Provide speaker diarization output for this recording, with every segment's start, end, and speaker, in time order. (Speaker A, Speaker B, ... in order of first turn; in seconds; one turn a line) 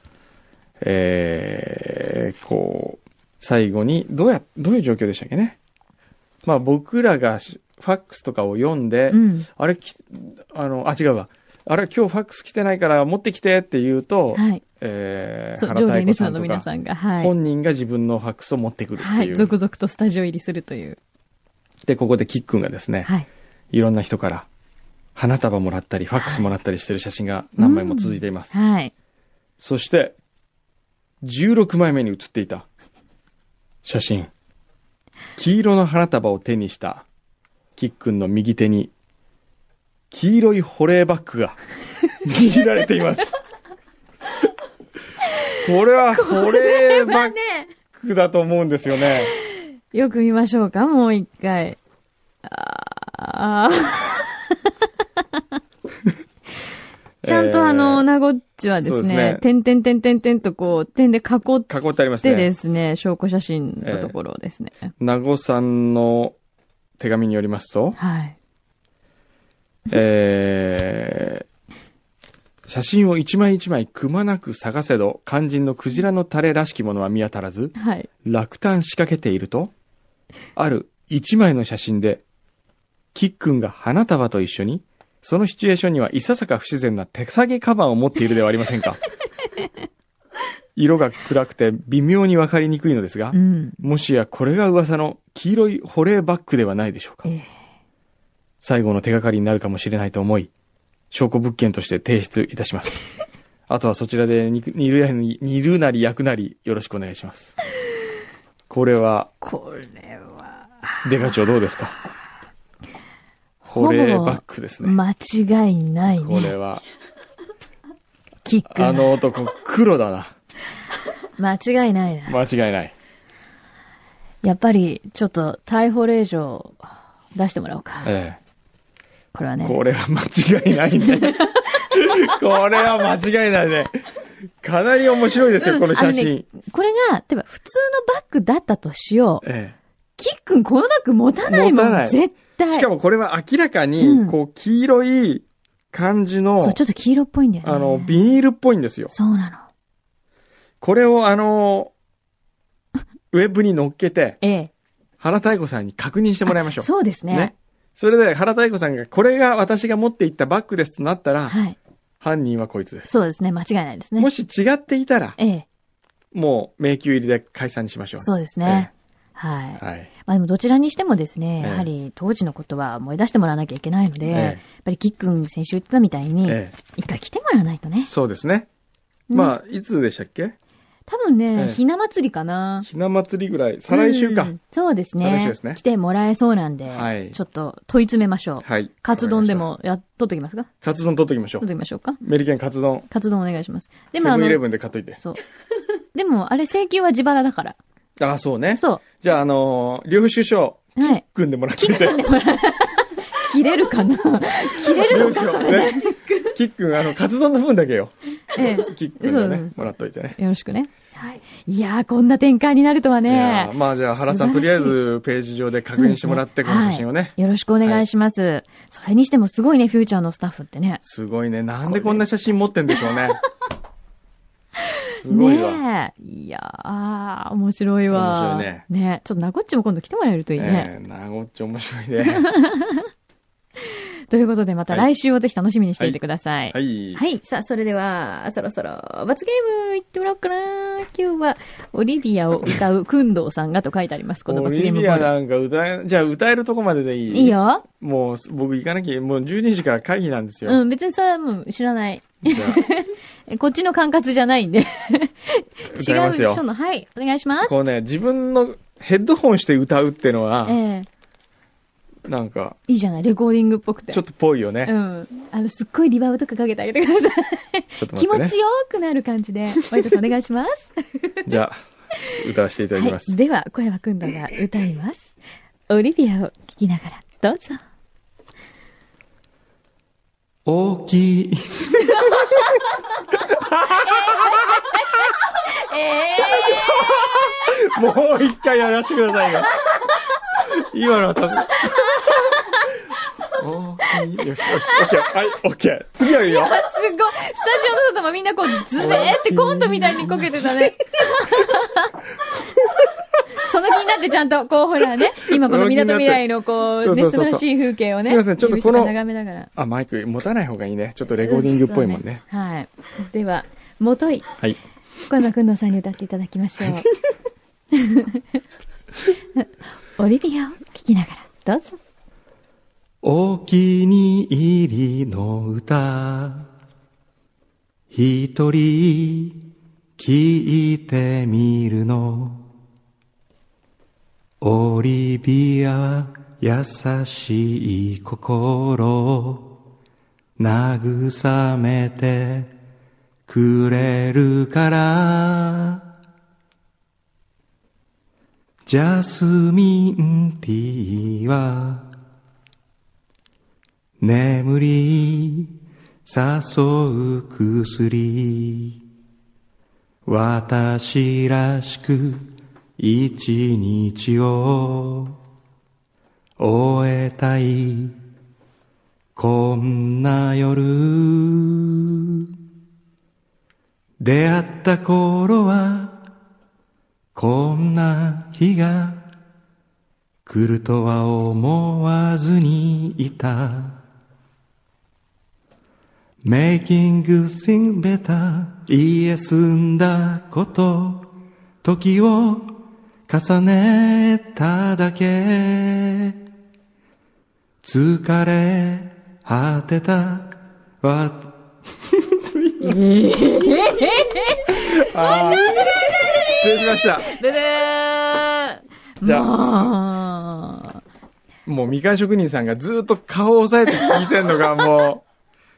Speaker A: 0.8-5.6
Speaker A: 6.4-16.7
Speaker B: 9.1-9.5
Speaker B: 14.3-14.6
Speaker B: 15.6-17.3
Speaker A: 17.2-19.5
Speaker B: 19.0-21.0
Speaker A: 21.8-23.1
Speaker A: 23.7-24.5
Speaker A: 25.1-28.6
Speaker B: 26.2-26.4
Speaker B: 27.6-28.9
Speaker A: 29.6-30.1
Speaker A: 31.2-32.6
Speaker A: 33.8-34.3
Speaker A: 35.4-37.0
Speaker A: 37.8-38.9
Speaker A: 40.1-41.6
Speaker A: 42.2-43.4
Speaker A: 45.6-47.4
Speaker B: 46.1-47.7
Speaker A: 47.9-49.3
Speaker B: 49.2-51.8
Speaker B: 52.4-55.4
Speaker A: 57.2-58.0
Speaker B: 57.2-64.9
Speaker A: 58.8-59.4
Speaker A: 61.7-62.5
Speaker A: 63.8-64.1
Speaker A: 65.0-66.3
Speaker A: 67.0-68.0
Speaker B: 68.0-68.3
Speaker A: 69.9-71.4
Speaker A: 72.7-79.7
Speaker B: 77.8-78.1
Speaker A: 80.5-82.2
Speaker A: 83.1-89.0
Speaker A: 90.8-97.3
Speaker B: 93.3-93.8
Speaker B: 97.2-97.5
Speaker A: 98.6-100.5
Speaker A: 101.1-103.0
Speaker A: 103.7-107.5
Speaker A: 108.7-109.3
Speaker B: 109.4-111.3
Speaker A: 111.0-112.0
Speaker B: 113.6-116.5
Speaker A: 113.7-115.0
Speaker A: 116.0-116.8
Speaker B: 118.4-119.1
Speaker A: 118.7-120.3
Speaker B: 121.4-122.4
Speaker A: 122.2-122.9
Speaker B: 124.4-128.1
Speaker A: 128.0-128.4
Speaker B: 129.3-129.8
Speaker A: 129.6-133.9
Speaker B: 131.0-131.7
Speaker A: 134.6-136.4
Speaker B: 135.5-139.4
Speaker A: 139.4-139.8
Speaker B: 140.2-142.9
Speaker A: 141.4-146.8
Speaker B: 144.0-144.3
Speaker B: 146.6-148.2
Speaker A: 147.6-149.1
Speaker B: 149.1-149.7
Speaker A: 150.8-151.9
Speaker A: 153.3-154.4
Speaker B: 154.4-154.7
Speaker A: 155.2-161.6
Speaker B: 156.5-157.5
Speaker B: 161.5-161.8
Speaker A: 162.2-163.1
Speaker B: 163.1-164.3
Speaker A: 164.2-165.4
Speaker B: 165.4-165.6
Speaker A: 166.3-168.9
Speaker B: 168.2-178.1
Speaker A: 169.8-170.1
Speaker A: 171.6-171.9
Speaker A: 174.3-174.6
Speaker A: 176.4-176.8
Speaker A: 178.0-178.7
Speaker B: 179.3-179.6
Speaker A: 179.3-180.5
Speaker B: 181.1-182.9
Speaker A: 181.6-181.8
Speaker A: 182.8-184.5
Speaker B: 183.9-190.7
Speaker A: 185.2-185.8
Speaker A: 186.9-187.4
Speaker A: 188.6-189.7
Speaker A: 190.8-191.7
Speaker B: 191.6-192.2
Speaker A: 192.2-193.1
Speaker B: 193.1-194.7
Speaker A: 194.2-195.2
Speaker B: 196.1-197.8
Speaker A: 198.2-202.2
Speaker B: 198.7-199.0
Speaker B: 201.0-201.2
Speaker B: 201.8-206.5
Speaker A: 205.0-210.4
Speaker B: 208.5-215.0
Speaker A: 213.3-218.0
Speaker B: 215.9-221.0
Speaker A: 221.0-223.4
Speaker B: 221.8-222.3
Speaker A: 225.1-225.8
Speaker B: 225.3-230.9
Speaker A: 228.1-228.8
Speaker A: 230.6-232.5
Speaker B: 232.3-233.1
Speaker B: 233.8-245.3
Speaker A: 236.7-237.2
Speaker A: 244.5-250.8
Speaker B: 247.3-247.8
Speaker B: 250.6-257.7
Speaker A: 252.4-252.8
Speaker A: 255.9-256.6
Speaker A: 257.6-260.8
Speaker B: 260.6-261.1
Speaker A: 262.3-262.8
Speaker B: 262.9-264.2
Speaker A: 264.1-264.9
Speaker B: 264.8-271.5
Speaker A: 268.0-268.5
Speaker A: 271.4-273.3
Speaker B: 272.9-275.3
Speaker B: 275.9-277.8
Speaker A: 280.6-282.6
Speaker A: 283.4-284.9
Speaker B: 284.0-287.6
Speaker A: 286.5-289.7
Speaker A: 290.6-292.3
Speaker B: 291.9-292.9
Speaker A: 293.6-296.8
Speaker B: 294.8-295.3
Speaker B: 296.2-309.7
Speaker A: 298.9-300.9
Speaker A: 305.2-306.4
Speaker A: 307.0-309.1
Speaker A: 309.7-312.4
Speaker B: 311.3-314.5
Speaker B: 315.2-317.1
Speaker B: 317.9-318.4
Speaker B: 319.5-322.0
Speaker A: 323.2-326.7
Speaker A: 328.1-329.6
Speaker A: 330.2-332.6
Speaker A: 334.6-339.7
Speaker A: 340.6-342.7
Speaker A: 343.5-346.0
Speaker A: 348.9-352.1
Speaker A: 354.2-355.7
Speaker A: 356.2-359.0
Speaker A: 360.2-365.4
Speaker A: 366.6-368.2
Speaker A: 369.4-372.5
Speaker A: 374.2-376.2
Speaker A: 377.3-379.3
Speaker A: 380.4-384.0
Speaker A: 386.4-396.4
Speaker A: 397.8-401.5
Speaker A: 402.1-403.0
Speaker B: 402.8-411.0
Speaker A: 404.7-405.9
Speaker A: 406.5-407.3
Speaker A: 409.2-409.9
Speaker A: 411.6-415.2